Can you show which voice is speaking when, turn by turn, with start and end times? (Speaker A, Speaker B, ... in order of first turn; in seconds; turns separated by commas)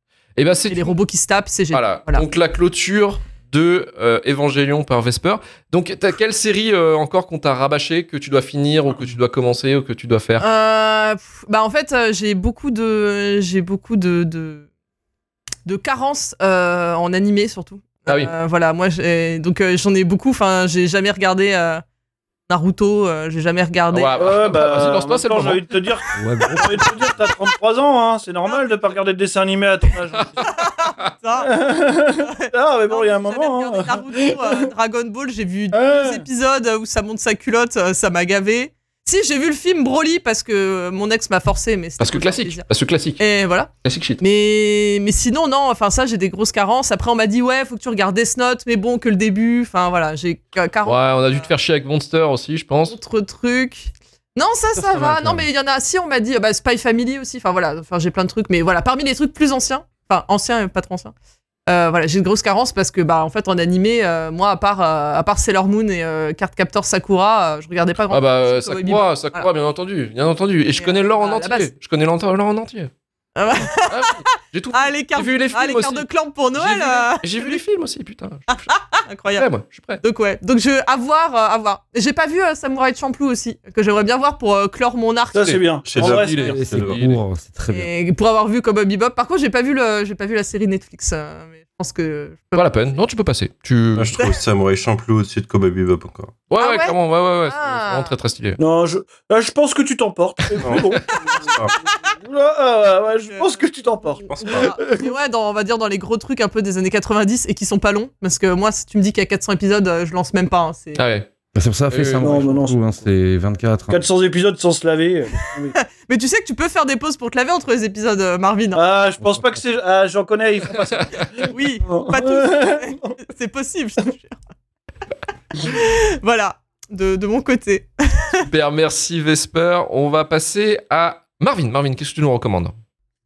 Speaker A: 0.4-0.9, Speaker B: 0.7-2.2, Speaker A: 1.7-10.4, Speaker B: 10.4-14.7, Speaker B: 15.7-21.8, Speaker A: 18.1-18.3, Speaker B: 22.5-24.4, Speaker A: 23.9-25.7, Speaker C: 24.1-30.6, Speaker D: 26.1-26.8, Speaker B: 27.0-27.3, Speaker B: 30.4-42.6, Speaker C: 31.4-34.6, Speaker C: 35.7-36.2, Speaker A: 42.0-43.2, Speaker B: 43.2-51.5, Speaker A: 43.8-44.2, Speaker A: 50.9-53.0, Speaker B: 52.9-61.1, Speaker D: 54.8-55.5, Speaker B: 61.7-69.5, Speaker A: 68.1-72.9, Speaker B: 70.8-71.7, Speaker B: 73.3-77.6, Speaker A: 73.9-78.7, Speaker B: 78.5-79.5, Speaker A: 79.3-80.0, Speaker B: 80.0-85.6, Speaker C: 85.3-86.7, Speaker A: 85.4-87.2, Speaker E: 85.8-87.0, Speaker D: 86.4-87.9, Speaker B: 87.7-92.9, Speaker A: 92.6-94.1, Speaker E: 94.0-96.3, Speaker A: 96.5-98.6, Speaker B: 96.6-98.2, Speaker C: 98.6-105.1, Speaker E: 100.6-101.0, Speaker B: 101.5-102.0, Speaker B: 103.3-103.6, Speaker E: 104.2-104.8, Speaker B: 104.3-111.0, Speaker A: 111.0-111.3, Speaker D: 111.5-114.0, Speaker A: 111.9-112.4, Speaker C: 112.2-113.1, Speaker C: 113.9-115.8, Speaker B: 115.7-118.8, Speaker C: 118.8-123.2, Speaker D: 119.2-119.6, Speaker A: 120.9-121.3, Speaker B: 121.3-124.4, Speaker B: 125.6-128.5, Speaker A: 128.4-132.8